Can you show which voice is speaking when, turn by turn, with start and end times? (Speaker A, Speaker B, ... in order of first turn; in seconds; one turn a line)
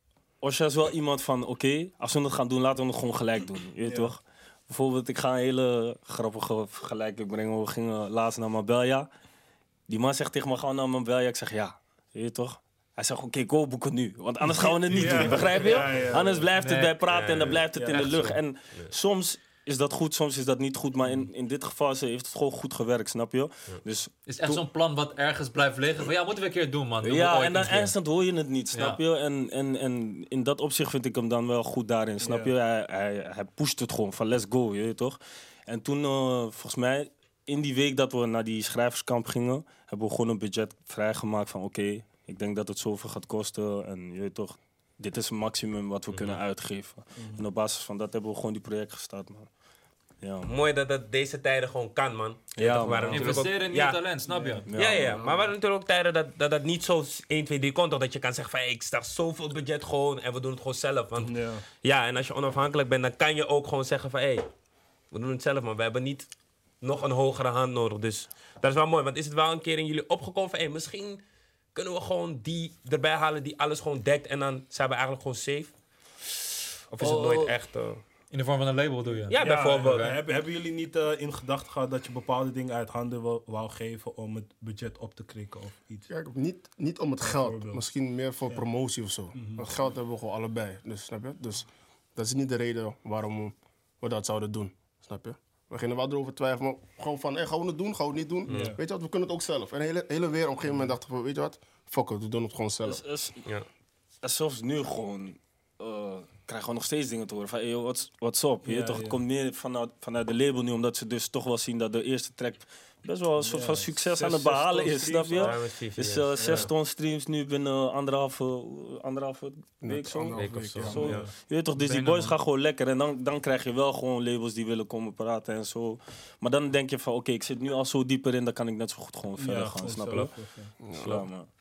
Speaker A: 0.4-9.1
Speaker B: 3.8-4.1
Speaker A: 9.9-24.6
Speaker B: 14.5-16.4
Speaker C: 16.5-17.0
Speaker D: 17.1-18.9
Speaker C: 24.3-27.9
Speaker A: 27.0-49.5
Speaker C: 28.7-29.0
Speaker B: 32.2-32.5
Speaker A: 50.2-50.5
Speaker D: 50.5-54.0
Speaker A: 52.5-53.5
Speaker C: 53.1-54.7
Speaker B: 54.3-54.6
Speaker A: 54.6-55.2
Speaker D: 54.7-64.5
Speaker B: 61.2-61.6
Speaker D: 65.1-66.3
Speaker D: 66.8-71.2
Speaker D: 71.7-75.7
Speaker D: 76.9-78.0
Speaker A: 77.0-77.5
Speaker C: 78.3-79.4
Speaker D: 79.3-80.2
Speaker B: 79.4-86.1
Speaker E: 86.1-103.0
Speaker B: 87.2-87.8
Speaker B: 89.3-89.6
Speaker D: 98.5-98.7
Speaker B: 98.5-98.8
Speaker A: 102.8-103.4
Speaker A: 104.2-130.3
Speaker B: 108.6-109.2
Speaker B: 113.4-115.6
Speaker D: 115.3-116.7
Speaker B: 116.4-116.7
Speaker E: 119.8-121.2
Speaker D: 120.3-121.3
Speaker B: 121.0-121.3
Speaker C: 121.7-122.3
Speaker B: 129.4-130.7
Speaker E: 130.8-131.2
Speaker A: 130.9-131.5